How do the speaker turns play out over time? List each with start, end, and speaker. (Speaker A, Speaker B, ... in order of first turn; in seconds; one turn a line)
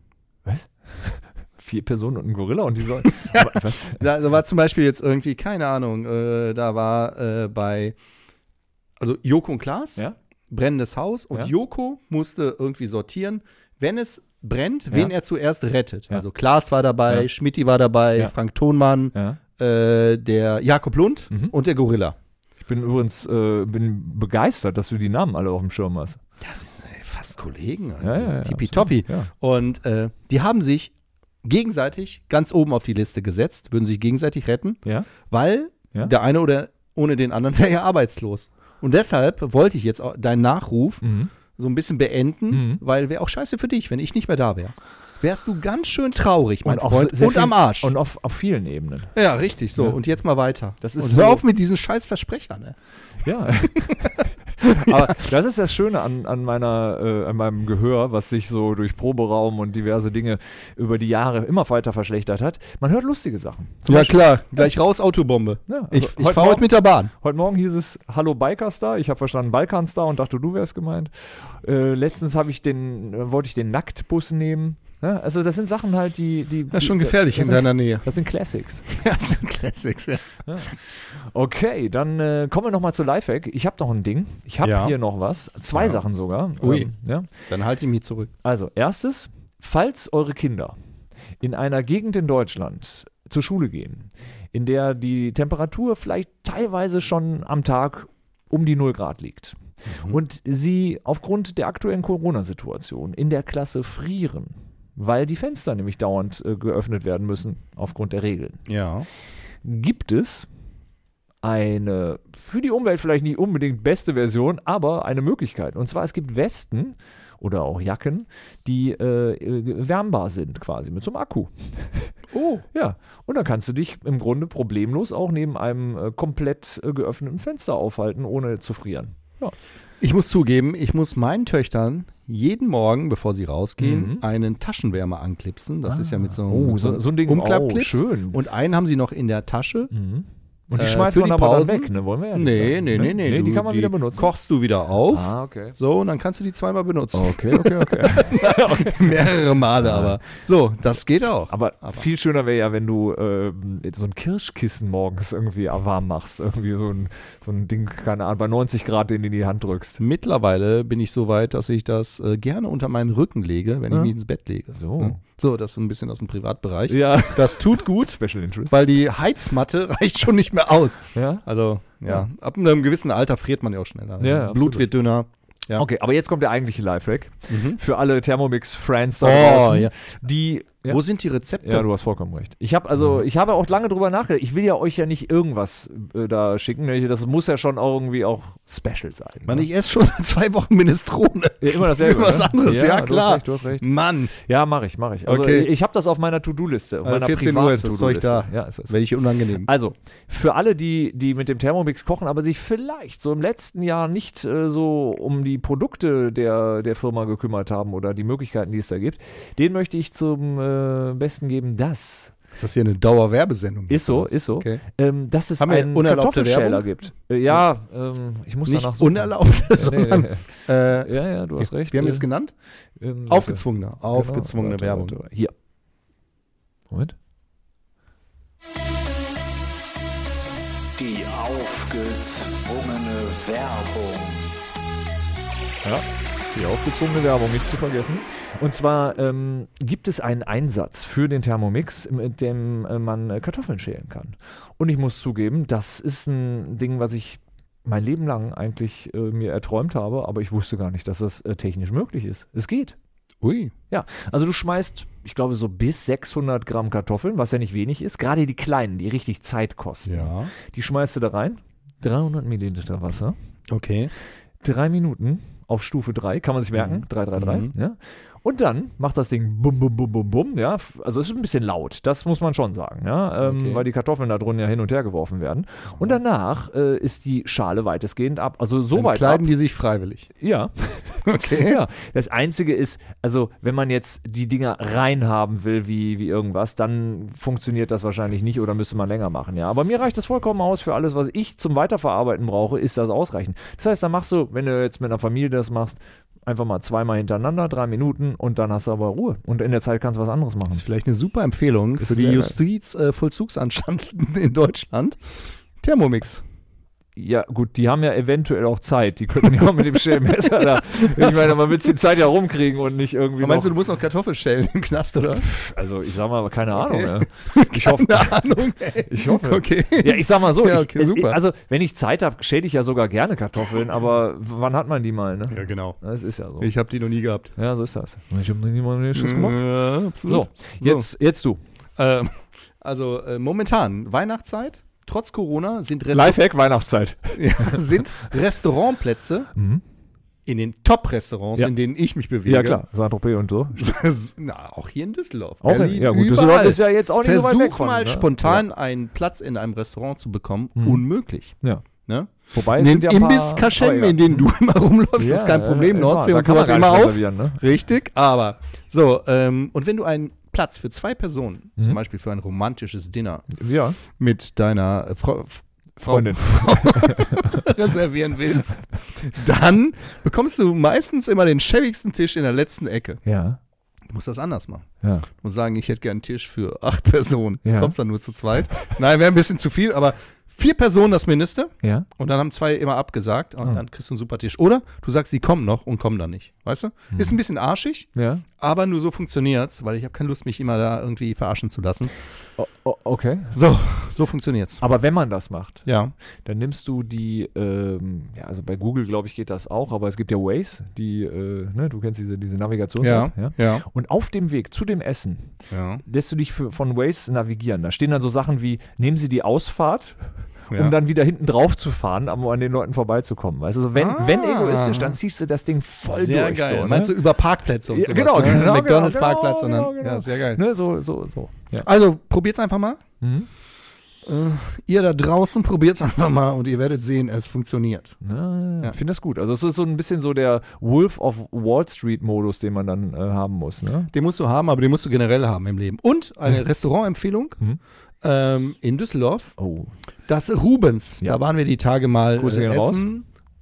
Speaker A: 0.5-4.0
Speaker B: 3.1-8.0
Speaker B: 9.0-22.1
Speaker A: 19.1-19.4
Speaker A: 22.6-26.2
Speaker B: 26.4-30.9
Speaker A: 28.0-29.3
Speaker B: 31.4-47.9
Speaker A: 41.0-41.3
Speaker A: 42.5-42.8
Speaker A: 46.6-49.1
Speaker B: 49.1-52.8
Speaker A: 50.8-51.4
Speaker A: 53.2-64.2
Speaker B: 53.8-54.1
Speaker B: 54.6-55.2
Speaker B: 63.9-67.1
Speaker A: 65.7-78.8
Speaker B: 76.7-78.1
Speaker B: 78.9-80.2
Speaker A: 80.5-87.3
Speaker B: 84.6-84.9
Speaker B: 85.7-86.0
Speaker B: 86.6-86.9
Speaker B: 87.5-88.3
Speaker A: 88.4-90.8
Speaker A: 91.4-108.6
Speaker B: 99.9-100.2
Speaker B: 108.7-109.1
Speaker A: 109.6-110.5
Speaker A: 111.4-122.1
Speaker B: 122.3-122.6
Speaker A: 122.7-129.5
Speaker B: 130.0-139.9
Speaker A: 133.8-134.2
Speaker A: 135.9-138.4
Speaker A: 139.9-144.3
Speaker B: 140.7-152.0
Speaker A: 145.1-145.8
Speaker A: 147.1-150.2
Speaker A: 151.5-160.0
Speaker B: 160.0-175.8
Speaker A: 164.7-165.2
Speaker A: 166.9-168.8
Speaker A: 171.1-171.4
Speaker A: 174.2-174.9
Speaker A: 175.8-181.0
Speaker B: 177.5-177.8
Speaker B: 179.2-179.9
Speaker B: 180.8-181.9
Speaker A: 181.6-189.7
Speaker B: 189.4-194.3
Speaker A: 191.6-199.0
Speaker B: 195.2-195.7
Speaker B: 197.0-199.7
Speaker A: 199.6-212.3
Speaker B: 212.5-214.8
Speaker A: 213.9-220.5
Speaker B: 215.6-216.9
Speaker B: 218.7-222.5
Speaker A: 221.0-222.3
Speaker A: 223.0-225.5
Speaker B: 223.3-225.2
Speaker A: 226.9-227.2
Speaker C: 231.0-234.4
Speaker A: 235.8-252.9
Speaker B: 253.4-253.7
Speaker A: 253.9-263.4
Speaker B: 260.0-260.5
Speaker B: 263.7-264.1
Speaker A: 264.6-279.5
Speaker B: 266.7-267.7
Speaker B: 273.4-273.9
Speaker B: 275.9-276.2
Speaker B: 278.9-280.3
Speaker A: 280.4-300.8
Speaker B: 281.2-281.8
Speaker B: 300.7-305.2
Speaker A: 302.0-302.6
Speaker B: 305.8-306.4
Speaker A: 307.1-313.7
Speaker B: 310.3-311.7
Speaker B: 313.4-315.5
Speaker A: 315.4-318.4
Speaker B: 316.7-321.4
Speaker A: 319.1-326.7
Speaker B: 325.5-326.0
Speaker B: 326.6-327.5
Speaker A: 327.6-329.6
Speaker B: 329.1-331.1
Speaker A: 330.2-331.6
Speaker B: 332.0-336.4
Speaker A: 336.1-337.9
Speaker B: 337.3-339.5
Speaker A: 339.5-339.8
Speaker B: 340.4-342.8
Speaker A: 342.4-343.8
Speaker B: 343.7-351.5
Speaker A: 345.6-348.6
Speaker A: 350.8-351.0
Speaker B: 352.0-363.5
Speaker A: 352.5-354.5
Speaker A: 355.2-357.6
Speaker A: 363.5-364.0
Speaker B: 364.1-373.2
Speaker A: 366.0-367.6
Speaker A: 373.2-373.6
Speaker B: 374.1-392.1
Speaker A: 375.0-375.3
Speaker A: 377.6-377.9
Speaker A: 381.8-382.1
Speaker A: 387.1-387.4
Speaker A: 388.1-388.4
Speaker A: 392.6-393.6
Speaker B: 393.5-394.8
Speaker A: 394.8-395.9
Speaker B: 395.9-396.1
Speaker A: 396.4-410.2
Speaker B: 403.0-403.8
Speaker B: 405.7-406.0
Speaker A: 410.7-417.2
Speaker B: 413.9-415.2
Speaker B: 416.0-420.6
Speaker A: 417.9-421.9
Speaker B: 421.8-423.0
Speaker A: 423.2-423.5
Speaker B: 424.2-428.2
Speaker A: 428.2-434.1
Speaker B: 434.1-437.6
Speaker B: 438.2-439.5
Speaker A: 439.6-439.9
Speaker B: 440.3-443.2
Speaker A: 442.4-443.0